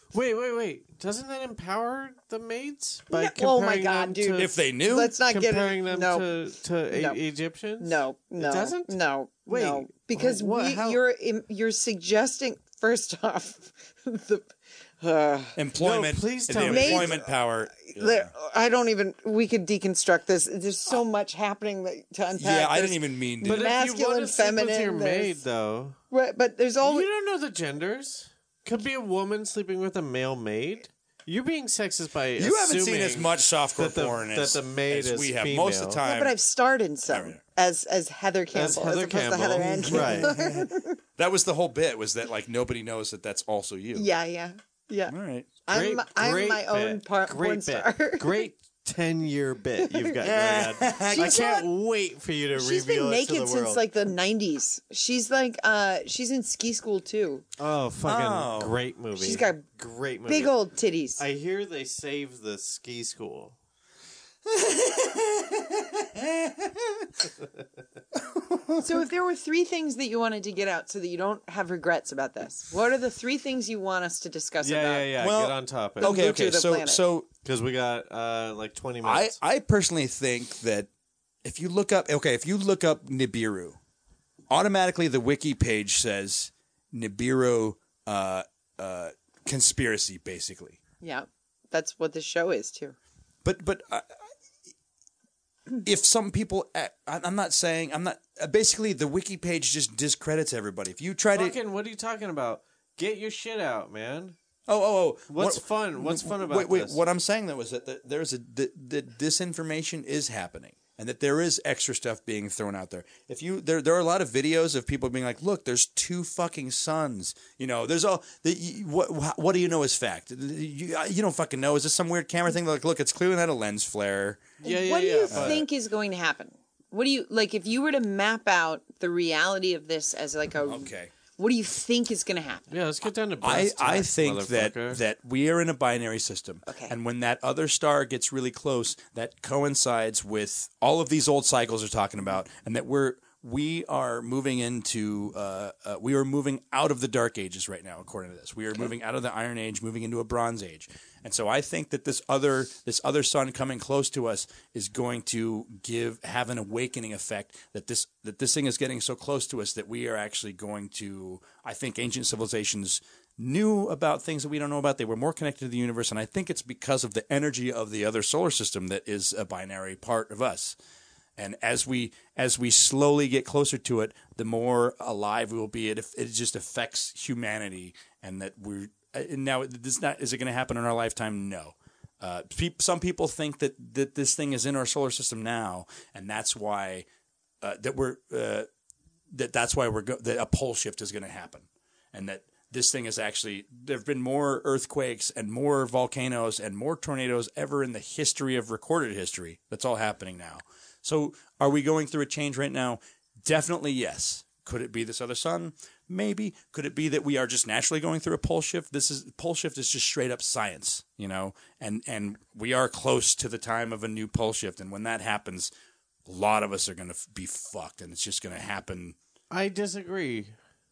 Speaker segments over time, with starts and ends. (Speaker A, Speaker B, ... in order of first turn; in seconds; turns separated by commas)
Speaker A: 0.1-4.5, Speaker B: 3.1-6.3, Speaker C: 4.3-5.1, Speaker A: 5.2-11.0, Speaker B: 6.9-7.2, Speaker B: 7.8-15.6, Speaker C: 15.6-18.3, Speaker A: 15.8-17.2, Speaker B: 16.6-17.2, Speaker B: 17.8-25.4, Speaker C: 22.3-23.7, Speaker A: 23.4-26.0, Speaker B: 26.1-27.1, Speaker A: 26.8-36.0, Speaker C: 32.4-36.3, Speaker B: 36.0-41.0, Speaker C: 37.1-37.4, Speaker A: 38.5-40.3, Speaker C: 39.8-44.1, Speaker B: 43.9-45.1, Speaker C: 45.1-45.5, Speaker B: 45.6-48.4, Speaker A: 45.7-53.8, Speaker B: 49.8-50.2, Speaker C: 50.2-51.4, Speaker B: 51.0-51.7, Speaker B: 52.5-57.4, Speaker A: 57.6-60.5, Speaker C: 58.0-58.7, Speaker B: 59.1-59.6, Speaker B: 60.3-61.2, Speaker A: 61.2-63.5, Speaker C: 64.9-67.1, Speaker C: 68.1-68.9, Speaker B: 68.8-75.1, Speaker A: 74.6-76.1, Speaker C: 75.2-77.3, Speaker B: 76.0-77.0, Speaker A: 77.4-79.4, Speaker C: 79.0-80.9, Speaker C: 81.4-83.8, Speaker C: 84.5-90.8, Speaker B: 91.0-93.0, Speaker C: 93.4-94.1, Speaker C: 95.8-101.6, Speaker A: 101.3-104.3, Speaker C: 104.7-124.5, Speaker A: 105.3-107.0, Speaker A: 124.6-125.7, Speaker B: 124.6-132.7, Speaker C: 125.3-125.6, Speaker C: 130.6-131.1, Speaker A: 132.7-135.0, Speaker C: 133.4-170.8, Speaker B: 136.7-136.9, Speaker C: 171.4-187.1, Speaker C: 187.6-188.7, Speaker C: 189.3-215.7, Speaker C: 216.3-219.2, Speaker A: 219.5-220.5